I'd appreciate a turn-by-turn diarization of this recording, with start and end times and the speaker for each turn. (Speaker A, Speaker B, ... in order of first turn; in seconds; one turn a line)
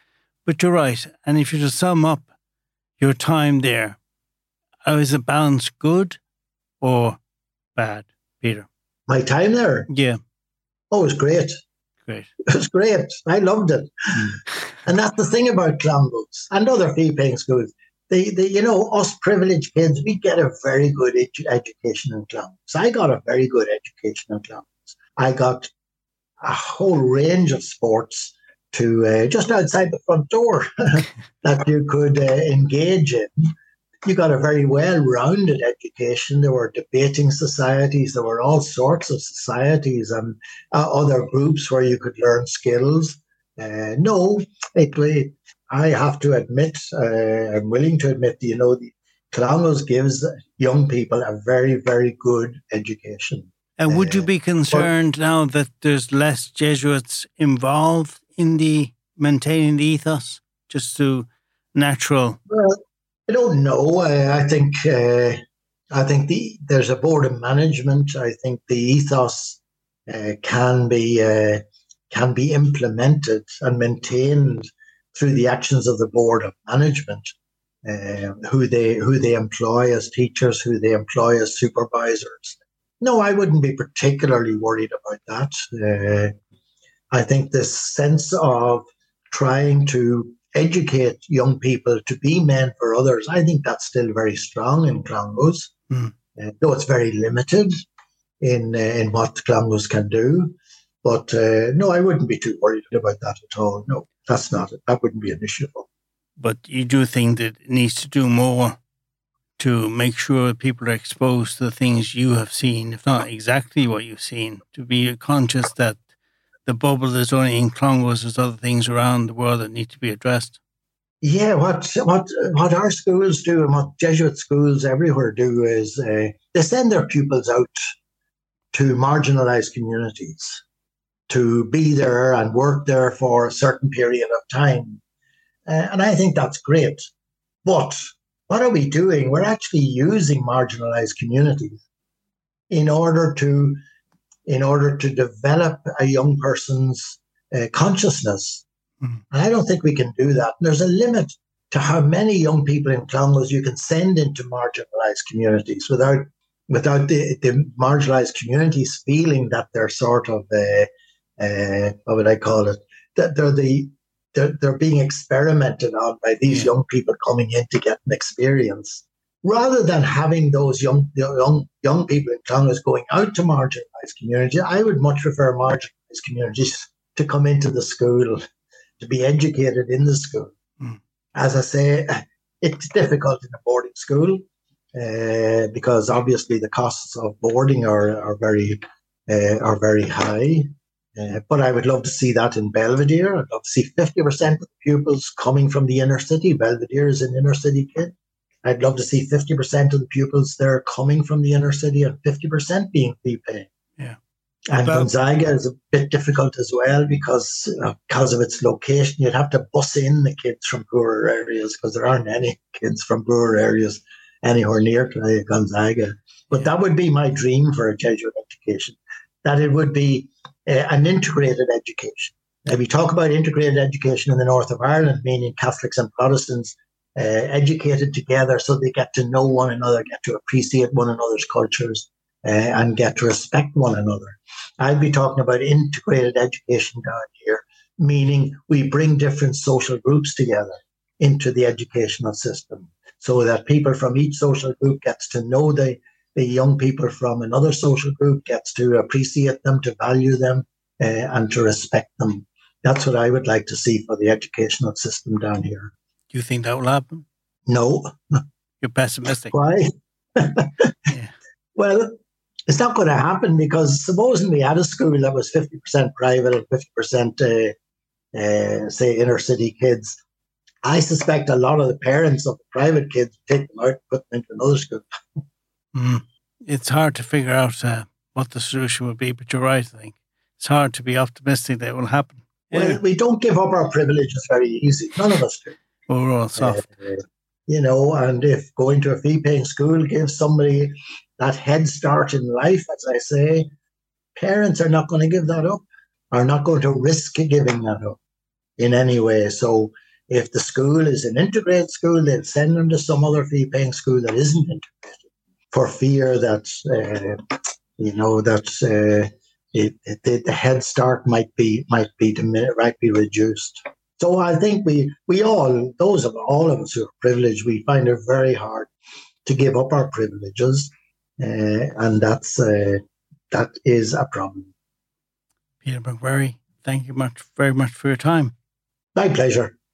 Speaker A: 0.5-2.3
Speaker A: 3.0-4.0
Speaker A: 4.8-6.2
Speaker A: 6.8-7.2
Speaker A: 7.7-8.7
Speaker B: 9.1-9.9
Speaker A: 9.9-10.2
Speaker B: 10.9-11.6
Speaker B: 12.5-25.7
Speaker B: 26.4-33.5
Speaker B: 34.0-54.9
Speaker A: 53.8-62.4
Speaker B: 62.5-65.4
Speaker B: 65.9-77.3
Speaker B: 77.8-86.3
Speaker B: 87.1-95.7
Speaker B: 96.3-97.8
Speaker B: 98.4-105.9
Speaker A: 106.4-108.8
Speaker A: 109.6-116.0
Speaker A: 116.6-120.6
Speaker B: 121.2-127.7
Speaker B: 128.7-130.6
Speaker B: 131.3-135.0
Speaker B: 135.7-137.1
Speaker B: 137.6-141.8
Speaker B: 142.7-143.8
Speaker B: 144.4-148.6
Speaker B: 149.3-178.4
Speaker B: 179.0-180.5
Speaker B: 181.3-184.4
Speaker B: 184.9-203.7
Speaker B: 204.7-255.9
Speaker A: 204.8-205.1
Speaker A: 256.3-257.2
Speaker B: 257.7-258.1
Speaker A: 258.8-259.5
Speaker B: 259.5-260.9
Speaker A: 261.1-261.3
Speaker B: 261.8-262.1
Speaker B: 262.7-267.7
Speaker B: 268.3-270.2
Speaker B: 270.8-275.4
Speaker A: 275.9-283.0
Speaker B: 282.7-285.8
Speaker A: 286.1-286.8
Speaker B: 286.6-293.7
Speaker B: 294.4-298.2
Speaker B: 298.8-307.4
Speaker B: 308.0-318.9
Speaker B: 319.4-324.7
Speaker A: 325.8-328.5
Speaker B: 329.1-329.7